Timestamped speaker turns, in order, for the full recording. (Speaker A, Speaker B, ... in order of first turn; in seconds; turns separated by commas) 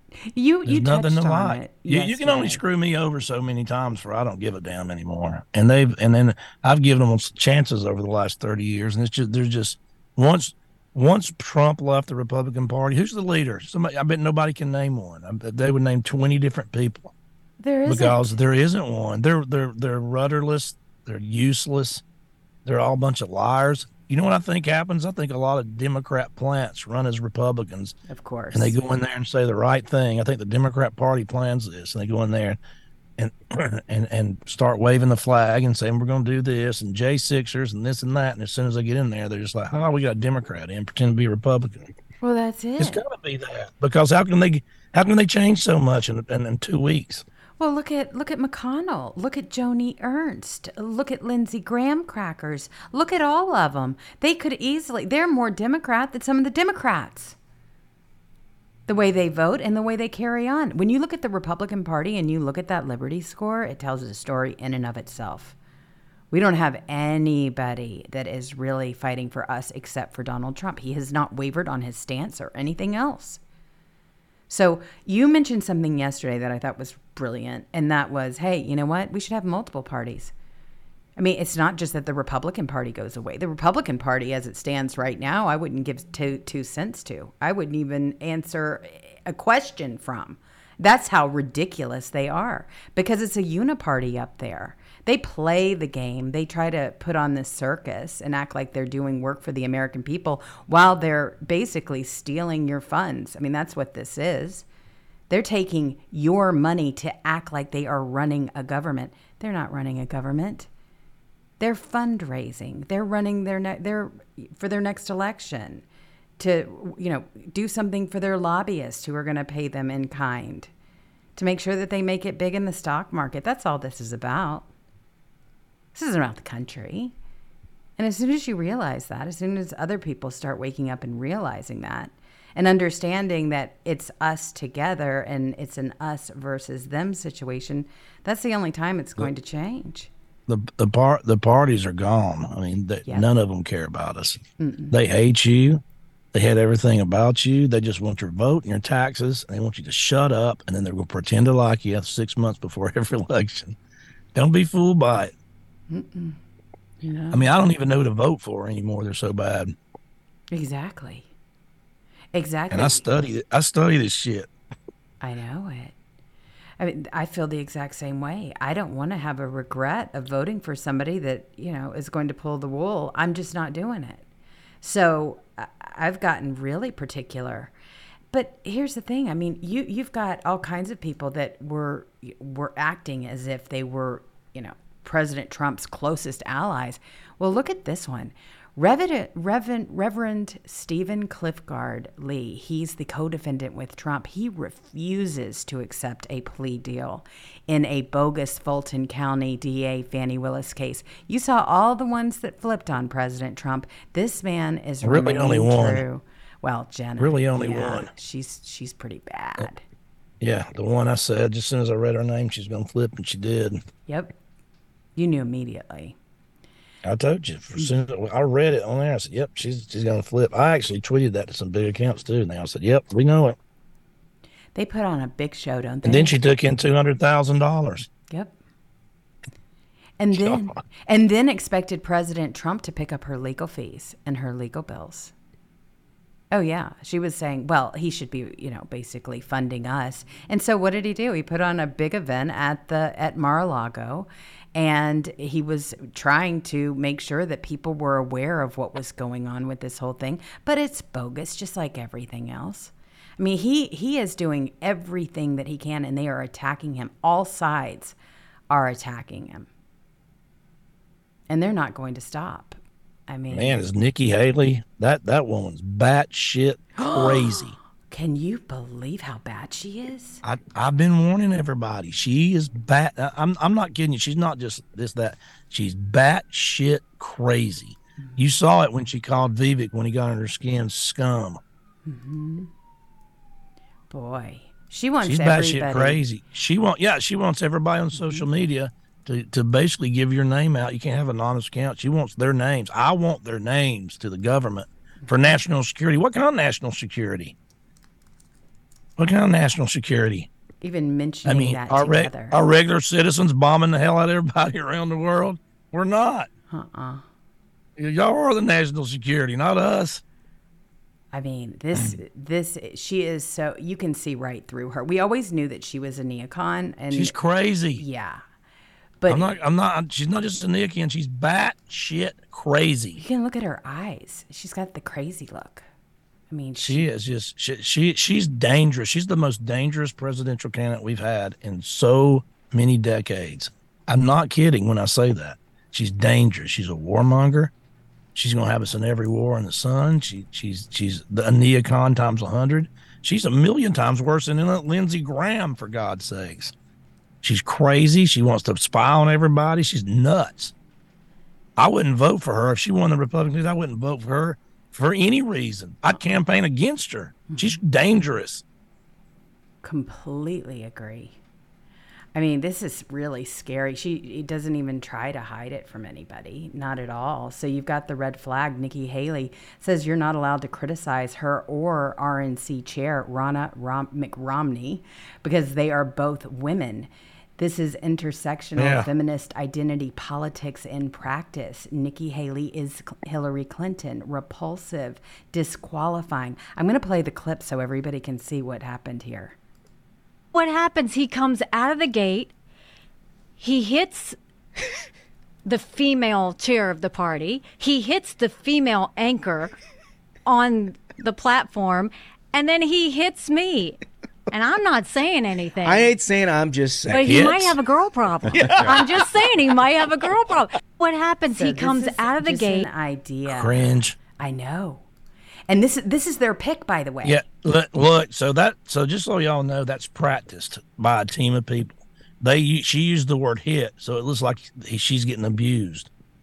Speaker A: 0.2-2.6, Speaker B: 0.7-17.1, Speaker A: 17.6-18.3, Speaker B: 17.9-22.0, Speaker B: 22.6-27.9, Speaker A: 28.1-28.8, Speaker B: 28.5-32.6, Speaker B: 33.2-41.9, Speaker A: 42.2-43.0, Speaker B: 42.8-47.2, Speaker A: 47.6-57.4, Speaker A: 58.9-65.5, Speaker A: 66.3-73.4, Speaker A: 74.5-80.3, Speaker A: 81.2-104.6, Speaker A: 105.3-110.7, Speaker A: 111.6-115.8, Speaker A: 116.4-120.7, Speaker A: 121.3-124.7, Speaker A: 125.9-127.1, Speaker A: 128.0-140.1, Speaker B: 140.5-144.4, Speaker A: 144.6-144.9, Speaker B: 144.9-145.8, Speaker B: 146.3-153.8, Speaker B: 154.3-155.3, Speaker A: 155.9-156.4, Speaker A: 157.0-157.5, Speaker B: 157.3-159.7, Speaker A: 160.5-161.3, Speaker A: 162.3-163.0, Speaker B: 162.7-164.5, Speaker A: 165.2-165.9, Speaker A: 166.8-174.2, Speaker A: 174.8-177.7, Speaker A: 178.3-209.8, Speaker B: 205.0-206.0, Speaker B: 207.2-208.1, Speaker B: 210.4-213.8, Speaker A: 214.1-214.3, Speaker A: 215.2-216.2, Speaker B: 217.0-223.6, Speaker A: 224.7-226.3, Speaker B: 226.0-228.1, Speaker A: 228.3-228.5, Speaker A: 230.2-235.3, Speaker B: 230.3-230.8, Speaker A: 236.5-258.1, Speaker A: 258.7-259.7, Speaker A: 261.5-263.8, Speaker B: 263.5-267.8, Speaker A: 267.0-270.4, Speaker B: 270.4-281.6, Speaker A: 278.2-278.5, Speaker A: 282.1-282.7, Speaker A: 284.1-286.2, Speaker B: 285.2-297.6, Speaker A: 288.1-288.4, Speaker B: 299.2-300.5, Speaker A: 300.8-302.6, Speaker B: 301.4-306.5, Speaker A: 306.7-307.2, Speaker B: 308.0-310.2, Speaker A: 311.3-317.4, Speaker B: 317.1-318.0, Speaker A: 318.0-318.4, Speaker A: 319.2-319.5, Speaker B: 319.3-323.2, Speaker A: 323.2-325.8, Speaker A: 326.5-327.0, Speaker B: 326.8-337.7, Speaker B: 338.3-346.7, Speaker B: 347.4-350.7, Speaker B: 351.8-358.6, Speaker A: 357.5-357.8, Speaker A: 359.8-361.4, Speaker A: 362.3-389.6, Speaker B: 378.8-379.1, Speaker C: 390.5-392.5, Speaker C: 393.6-394.4, Speaker C: 395.6-399.8, Speaker C: 400.4-404.0, Speaker C: 404.5-406.1, Speaker D: 405.8-407.4, Speaker B: 407.1-407.8, Speaker C: 407.1-412.9, Speaker D: 408.5-409.0, Speaker A: 411.5-415.1, Speaker B: 413.5-414.2, Speaker A: 415.7-417.4, Speaker B: 417.2-426.1